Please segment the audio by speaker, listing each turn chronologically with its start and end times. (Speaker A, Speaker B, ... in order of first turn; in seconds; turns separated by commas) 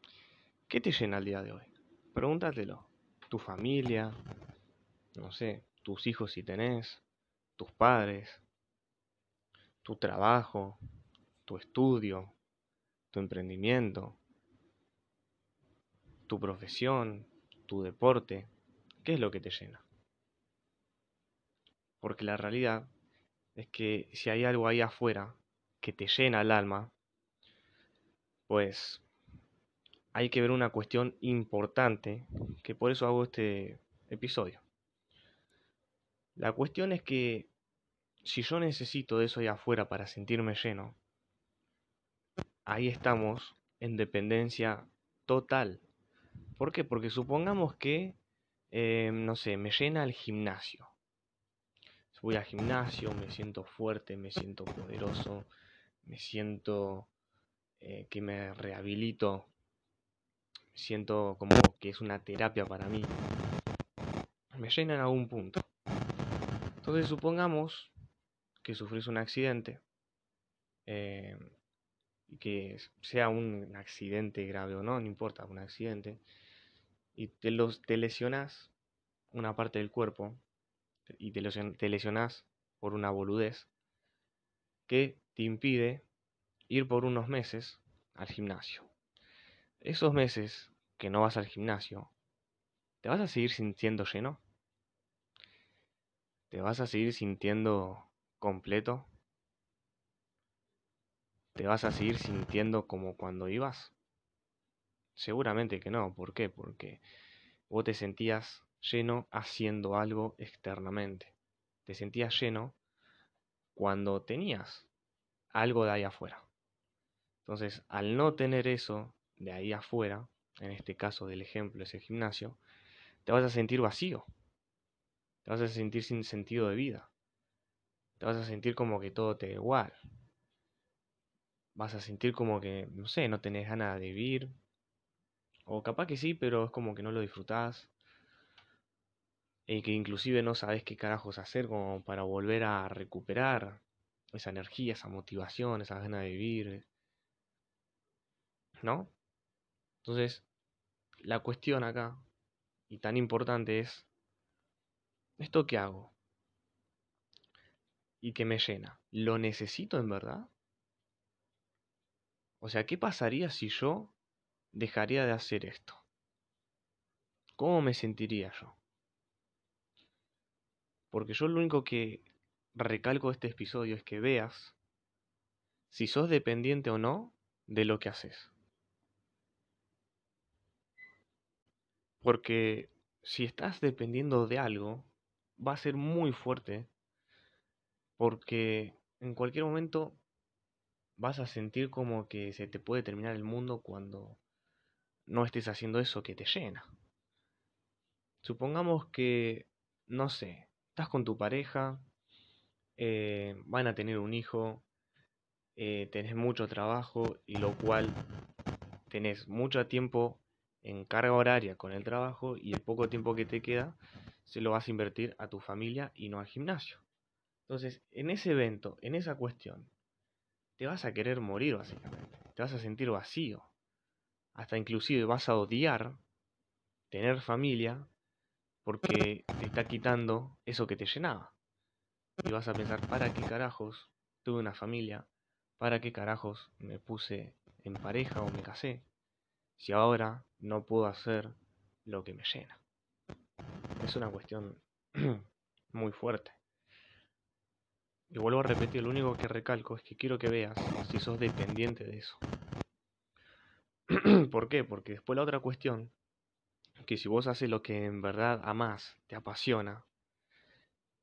Speaker A: 0.7-4.2, Speaker A: 5.2-7.0, Speaker A: 7.6-8.4, Speaker A: 9.8-10.8, Speaker A: 11.5-12.4, Speaker A: 13.1-14.2, Speaker A: 16.3-18.5, Speaker A: 19.0-19.9, Speaker A: 22.0-22.9, Speaker A: 23.6-26.9, Speaker A: 28.5-29.1, Speaker A: 30.1-34.6, Speaker A: 36.4-37.5, Speaker A: 38.2-41.0, Speaker A: 42.7-45.9, Speaker A: 46.6-48.2, Speaker A: 48.7-51.0, Speaker A: 52.1-55.5, Speaker A: 56.0-57.1, Speaker A: 57.8-59.5, Speaker A: 60.7-63.1, Speaker A: 64.6-65.7, Speaker A: 66.8-67.9, Speaker A: 68.6-69.8, Speaker A: 70.9-71.5, Speaker A: 72.3-76.2, Speaker A: 77.2-78.7, Speaker A: 79.3-80.4, Speaker A: 81.1-83.7, Speaker A: 84.9-86.1, Speaker A: 86.7-88.9, Speaker A: 89.8-92.1, Speaker A: 93.0-94.4, Speaker A: 96.5-99.1, Speaker A: 101.5-104.0, Speaker A: 105.2-107.0, Speaker A: 107.7-111.3, Speaker A: 111.9-112.8, Speaker A: 113.8-114.9, Speaker A: 115.5-116.5, Speaker A: 117.4-122.6, Speaker A: 123.2-124.3, Speaker A: 125.5-127.1, Speaker A: 128.2-130.0, Speaker A: 131.8-134.5, Speaker A: 135.7-137.9, Speaker A: 139.7-146.9, Speaker A: 148.8-149.1, Speaker A: 150.0-150.5, Speaker A: 151.2-152.2, Speaker A: 152.9-154.1, Speaker A: 155.4-156.1, Speaker A: 158.2-160.5, Speaker A: 162.6-164.2, Speaker A: 164.7-166.1, Speaker A: 167.6-168.8, Speaker A: 171.1-174.8, Speaker A: 175.9-178.5, Speaker A: 182.2-186.9, Speaker A: 188.2-190.2, Speaker A: 191.2-194.4, Speaker A: 195.3-196.9, Speaker A: 198.4-202.1, Speaker A: 203.0-204.8, Speaker A: 205.8-208.2, Speaker A: 209.1-217.1, Speaker A: 217.7-219.9, Speaker A: 220.8-223.7, Speaker A: 224.6-226.2, Speaker A: 227.1-228.1, Speaker A: 228.8-231.6, Speaker A: 232.4-239.1, Speaker A: 239.8-242.8, Speaker A: 244.0-246.6, Speaker A: 248.3-252.4, Speaker A: 254.1-256.1, Speaker A: 257.0-260.1